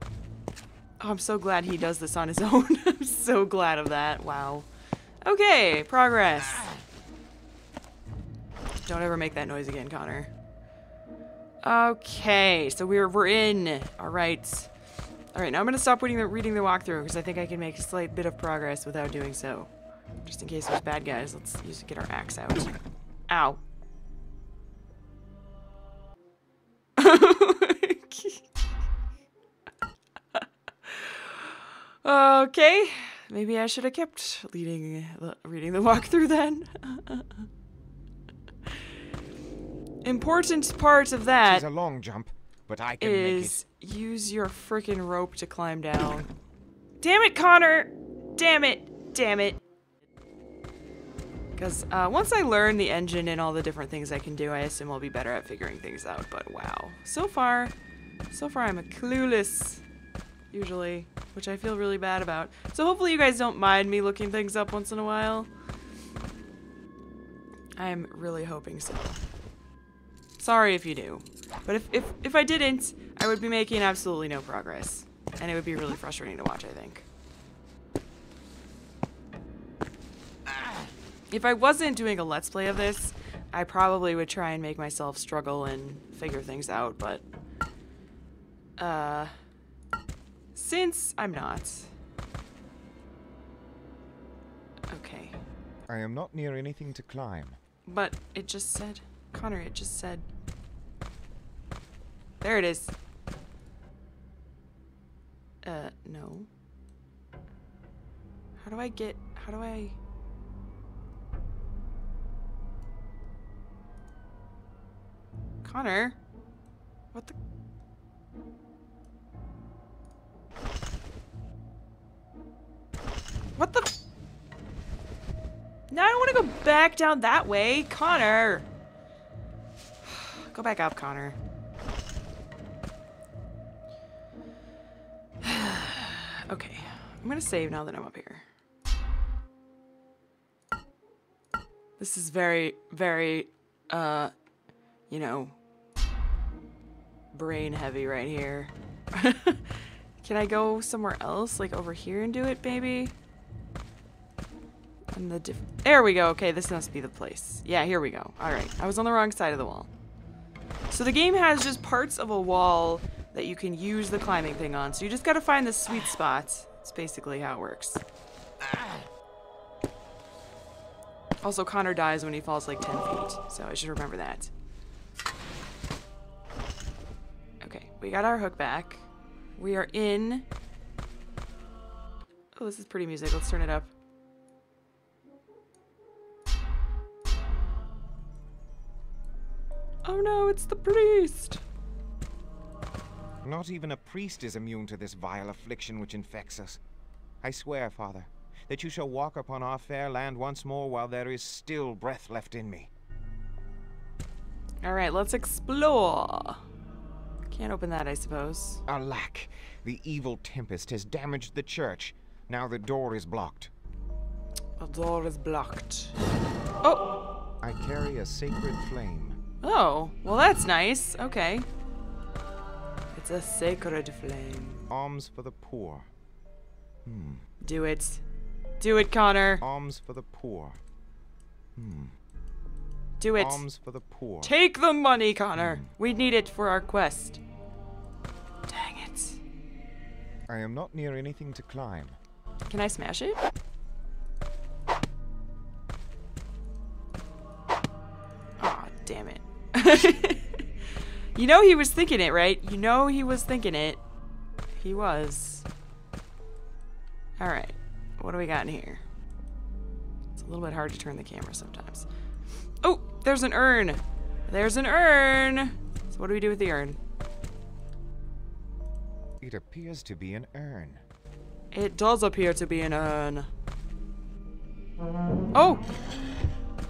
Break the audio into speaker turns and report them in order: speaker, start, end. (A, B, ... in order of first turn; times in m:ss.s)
0:01.0-0:04.7 A
0:05.2-0:06.7 A
0:08.8-0:10.3 A
0:11.6-0:14.7 A
0:15.3-0:19.7 A
0:20.2-0:22.7 A
0:23.3-0:23.6 A
0:27.0-0:28.4 A
0:30.4-0:37.5 A
0:40.0-0:41.6 A
0:41.4-0:43.6 B
0:43.0-0:46.3 A
0:47.0-0:49.6 A
0:51.6-0:57.8 A
0:58.3-0:59.8 A
1:00.5-1:05.5 A
1:07.8-1:09.2 A
1:10.4-1:17.0 A
1:21.3-1:27.2 A
1:28.8-1:29.4 A
1:30.6-1:31.9 A
1:34.9-1:35.4 A
1:35.9-1:37.6 B
1:37.8-1:40.3 A
1:42.4-1:43.0 A
1:45.6-1:46.5 A
1:48.6-1:50.0 A
1:55.6-1:56.2 A
2:03.6-2:03.9 A
2:05.9-2:08.7 A
2:10.0-2:11.4 A
2:15.4-2:18.4 A
2:22.0-2:24.3 A
2:25.1-2:25.6 A
2:27.3-2:33.1 A
2:35.1-2:39.9 A
2:40.9-2:48.0 A
2:51.4-2:54.5 A
2:57.6-2:59.0 A
2:59.6-3:00.5 A
3:02.6-3:03.9 A
3:10.0-3:11.6 A
3:13.4-3:16.8 B
3:17.4-3:22.9 B
3:24.8-3:26.6 A
3:27.5-3:28.8 A
3:28.9-3:33.7 B
3:34.8-3:36.2 A
3:37.6-3:39.4 B
3:39.6-3:41.7 A
3:43.1-3:44.8 A
3:44.9-3:46.1 B
3:47.0-3:47.4 B
3:47.6-3:48.2 A
3:48.8-3:49.6 A
3:49.6-3:50.8 B
3:51.8-3:52.1 B
3:53.2-3:53.6 A
3:53.4-3:54.6 B
3:54.4-3:57.4 A
3:55.6-3:55.9 B
3:58.7-3:59.4 A
4:00.5-4:02.2 B
4:02.7-4:03.4 A
4:08.6-4:10.7 A
4:11.4-4:14.0 A
4:14.8-4:15.7 A
4:17.4-4:19.0 A
4:20.4-4:22.1 A
4:22.8-4:27.0 A
4:29.4-4:31.0 B
4:31.7-4:33.5 A
4:35.5-4:35.8 A